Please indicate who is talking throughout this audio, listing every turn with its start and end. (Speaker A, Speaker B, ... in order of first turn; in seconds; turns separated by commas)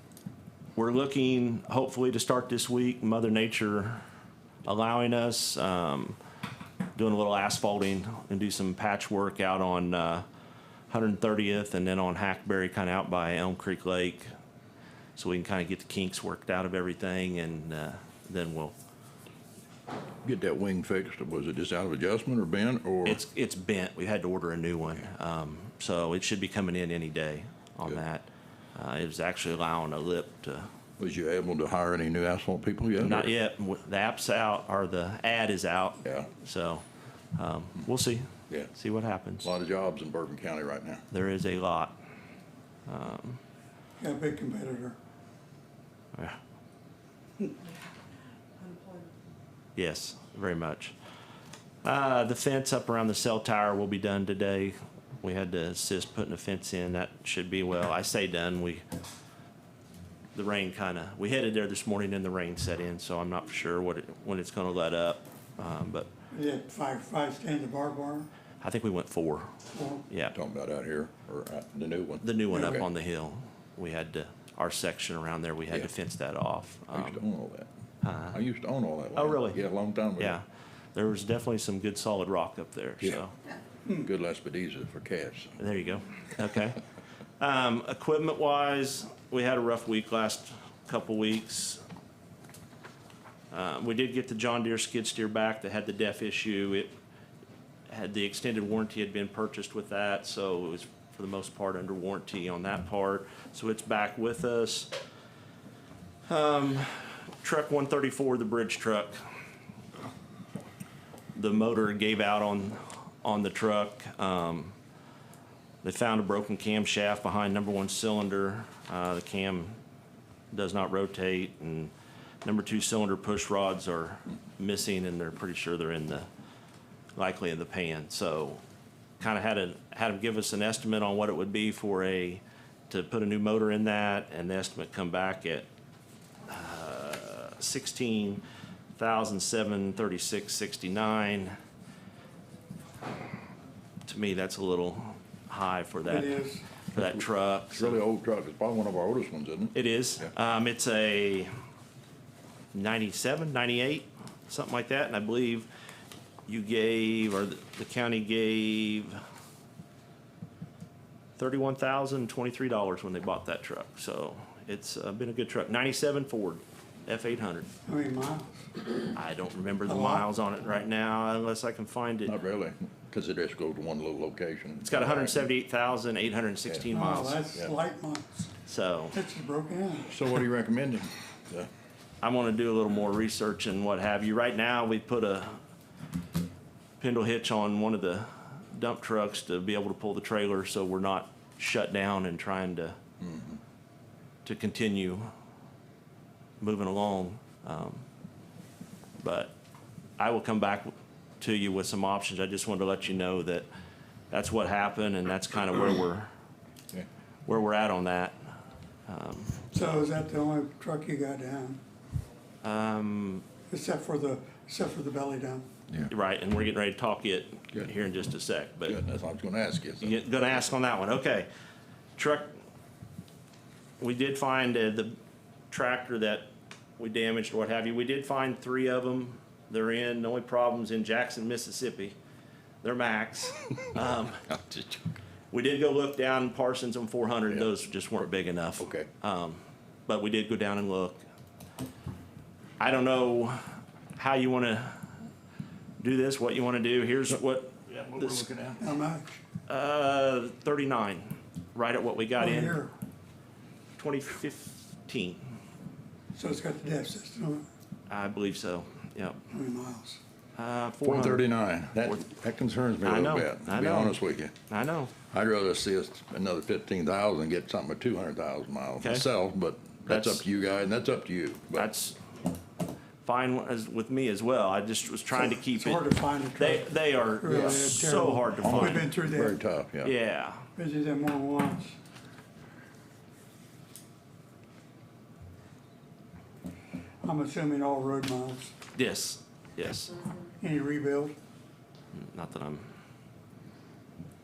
Speaker A: 0.8-4.0, Speaker A: 4.6-6.2, Speaker A: 6.9-10.2, Speaker A: 10.9-14.3, Speaker A: 15.1-18.7, Speaker B: 20.2-23.2, Speaker A: 23.0-30.7, Speaker B: 31.0-33.3, Speaker A: 33.0-36.8, Speaker B: 36.0-36.3, Speaker A: 37.4-39.5, Speaker B: 39.4-41.0, Speaker A: 41.1-42.0, Speaker A: 42.9-43.4, Speaker C: 44.0-45.0, Speaker A: 49.8-50.9, Speaker A: 51.8-58.8, Speaker A: 60.3-66.1, Speaker C: 66.3-68.3, Speaker A: 68.6-69.5, Speaker C: 69.7-70.0, Speaker A: 70.1-70.3, Speaker B: 70.3-72.8, Speaker A: 72.2-77.2, Speaker C: 72.5-72.8, Speaker B: 76.9-77.7, Speaker A: 78.0-78.4, Speaker B: 78.3-80.4, Speaker A: 79.1-79.6, Speaker A: 80.2-80.4, Speaker A: 80.9-83.3, Speaker B: 83.9-85.6, Speaker A: 85.6-86.8, Speaker A: 87.4-91.8, Speaker A: 93.5-96.9, Speaker A: 97.9-104.9, Speaker A: 106.3-109.2, Speaker A: 111.3-114.8, Speaker A: 115.8-119.8, Speaker A: 120.5-121.9, Speaker A: 122.4-126.3, Speaker A: 127.2-128.6, Speaker A: 129.2-135.7, Speaker A: 136.5-138.4, Speaker A: 138.9-141.6, Speaker A: 144.1-148.0, Speaker C: 146.0-146.7, Speaker B: 146.9-150.3, Speaker A: 149.7-151.5, Speaker A: 152.7-155.7, Speaker A: 156.5-159.2, Speaker A: 161.4-167.7, Speaker C: 167.9-168.7, Speaker A: 169.1-172.3, Speaker C: 169.8-170.3, Speaker B: 172.2-175.4, Speaker A: 174.8-177.4, Speaker C: 176.9-178.5, Speaker A: 178.7-179.2, Speaker C: 179.1-180.2, Speaker B: 180.1-181.7, Speaker A: 182.2-185.6, Speaker A: 187.0-193.0, Speaker B: 193.2-193.6, Speaker A: 194.4-195.3, Speaker A: 196.6-198.1, Speaker A: 199.2-199.5, Speaker A: 200.2-203.7, Speaker A: 204.3-206.3, Speaker A: 207.4-208.3, Speaker A: 209.1-210.0, Speaker C: 209.7-211.8, Speaker A: 212.6-213.4, Speaker C: 213.7-215.7, Speaker A: 216.1-219.0, Speaker B: 218.8-220.2, Speaker A: 220.0-221.5, Speaker A: 222.2-222.6, Speaker A: 224.0-225.2, Speaker A: 225.7-232.1, Speaker A: 232.8-234.4, Speaker B: 234.5-235.0, Speaker A: 235.5-241.2, Speaker B: 238.8-239.1, Speaker A: 242.8-245.1, Speaker A: 246.0-247.8, Speaker B: 247.9-248.9, Speaker C: 248.8-249.4, Speaker A: 249.7-252.8, Speaker C: 252.4-252.9, Speaker A: 254.0-255.4, Speaker C: 256.3-257.6, Speaker A: 258.1-259.4, Speaker C: 259.5-260.2, Speaker A: 260.6-261.4, Speaker B: 261.0-264.5, Speaker A: 263.0-265.1, Speaker B: 265.3-271.9, Speaker A: 269.0-269.2, Speaker A: 270.1-270.4, Speaker A: 271.7-272.2, Speaker A: 273.2-279.1, Speaker C: 275.3-279.6, Speaker B: 277.5-277.8, Speaker B: 278.6-280.1, Speaker A: 280.0-280.6, Speaker C: 280.8-281.9, Speaker C: 287.2-288.7, Speaker A: 288.9-290.1, Speaker C: 290.6-291.3, Speaker A: 292.1-292.9